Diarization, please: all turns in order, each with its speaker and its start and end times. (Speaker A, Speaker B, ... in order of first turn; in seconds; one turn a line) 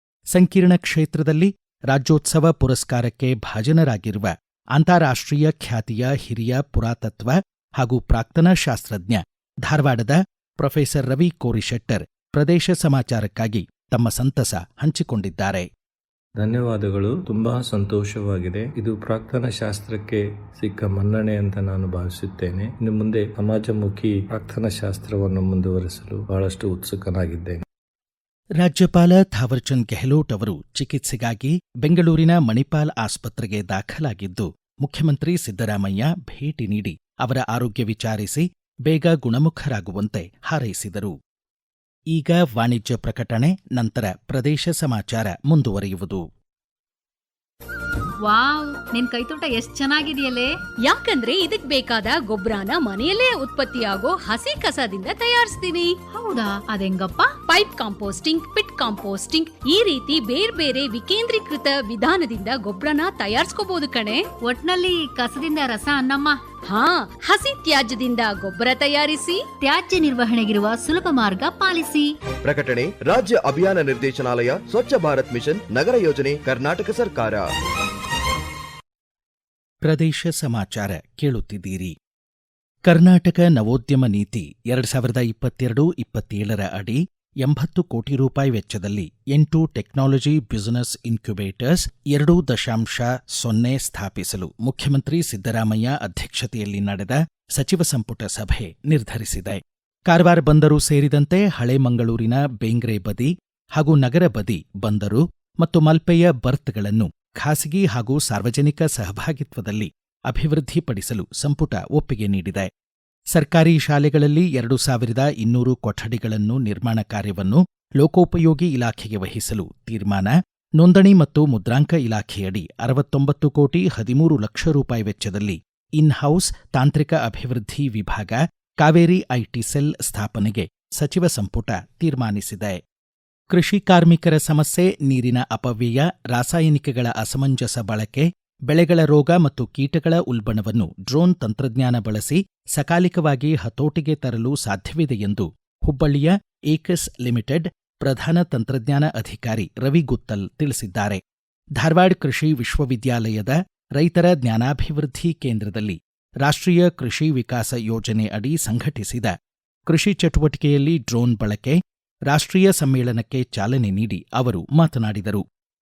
Speaker A: 0.3-15.7
Speaker B: 16.4-27.6
Speaker A: 28.6-41.1
Speaker A: 42.1-46.2
Speaker C: 48.2-50.6
Speaker D: 50.8-56.0
Speaker C: 56.1-57.4
Speaker D: 57.5-64.3
Speaker C: 64.4-66.4
Speaker D: 66.7-69.5
Speaker C: 69.6-72.1
Speaker E: 72.4-77.5
Speaker A: 79.8-81.9
Speaker A: 82.9-112.7
Speaker A: 113.3-132.8
Speaker A: 133.5-151.2
Speaker A: 151.8-159.3
Speaker A: 159.9-161.8
Speaker A: 162.3-165.4